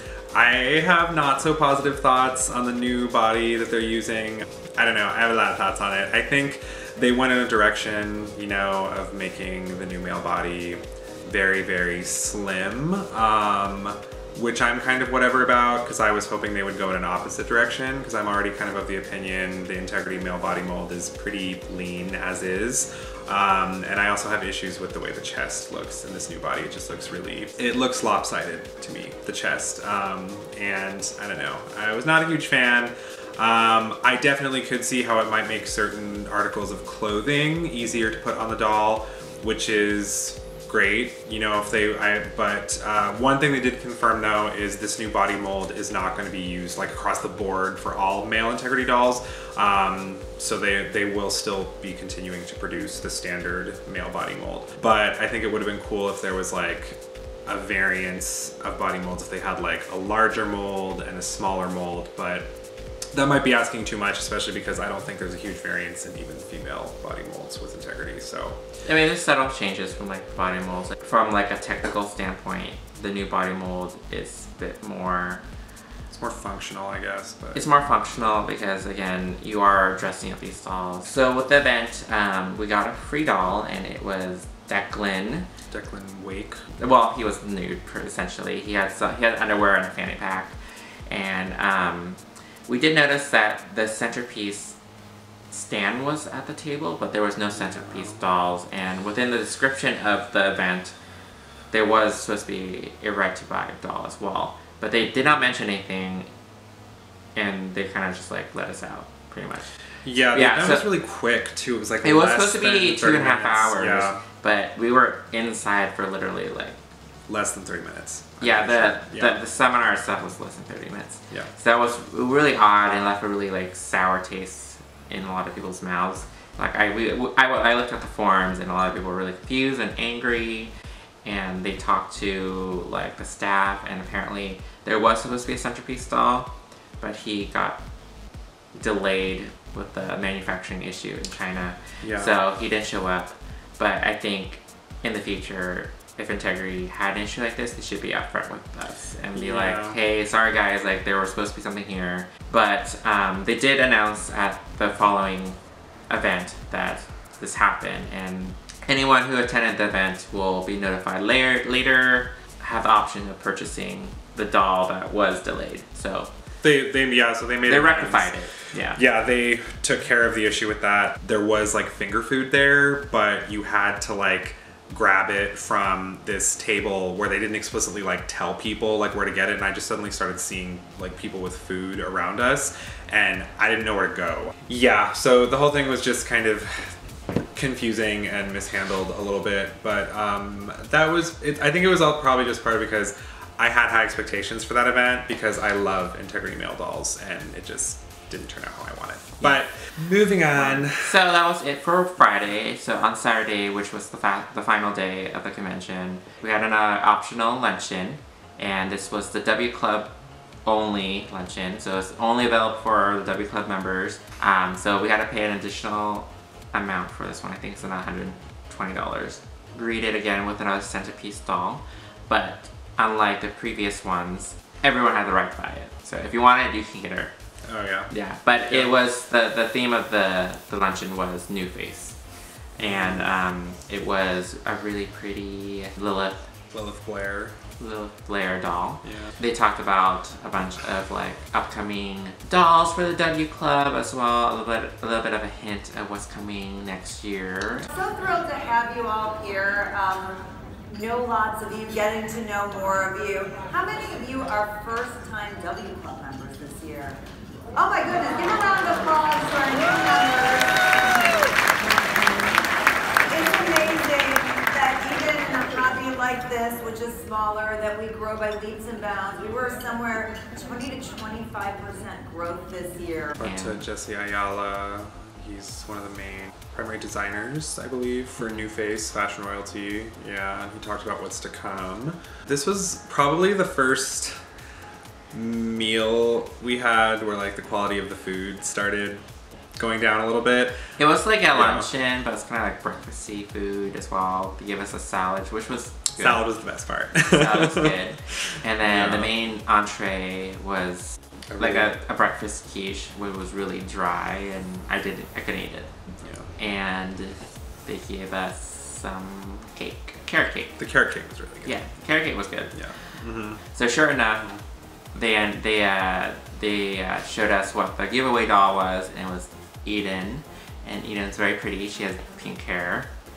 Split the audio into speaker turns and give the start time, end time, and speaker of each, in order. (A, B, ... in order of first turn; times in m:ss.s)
0:00.3-1:02.5 A
1:03.1-1:08.6 A
1:08.8-1:15.4 B
1:16.1-1:17.6 A
1:17.6-1:25.5 B
1:25.7-1:26.6 A
1:26.8-1:30.6 B
1:31.1-1:34.8 B
1:35.5-1:41.0 B
1:37.6-1:38.2 A
1:41.7-1:46.3 B
1:47.4-1:49.7 B
1:50.0-1:54.2 A
1:50.3-1:50.9 B
1:52.0-1:56.8 B
1:57.3-1:59.4 A
1:58.4-2:10.7 B
2:11.2-2:17.8 B
2:18.7-2:35.6 B
2:22.0-2:22.3 A
2:29.3-2:30.0 A
2:36.1-2:46.3 B
2:46.6-2:48.4 A
2:47.7-2:49.0 B
2:48.9-3:07.0 A
3:07.5-3:21.2 A
3:20.6-3:30.1 B
3:30.6-3:47.3 B
3:47.6-3:48.1 A
3:48.1-3:52.2 B
3:52.8-3:53.3 A
3:52.8-3:56.5 B
3:56.7-3:57.6 A
3:57.8-4:07.9 B
3:59.0-3:59.3 A
4:07.9-4:17.2 C
4:17.7-4:21.4 C
4:23.3-4:33.4 C
4:33.4-4:44.4 A
4:33.4-4:33.8 B
4:45.3-4:49.2 A
4:49.8-4:50.9 A
4:51.0-4:56.4 B
4:51.5-4:51.9 A
4:56.2-4:59.3 A
4:57.3-5:06.0 B
5:01.5-5:01.9 A
5:06.2-5:06.5 A
5:06.6-5:10.8 B
5:10.8-5:11.8 A
5:11.6-5:12.9 B
5:12.7-5:13.6 A
5:13.7-5:14.5 B
5:15.1-5:23.1 B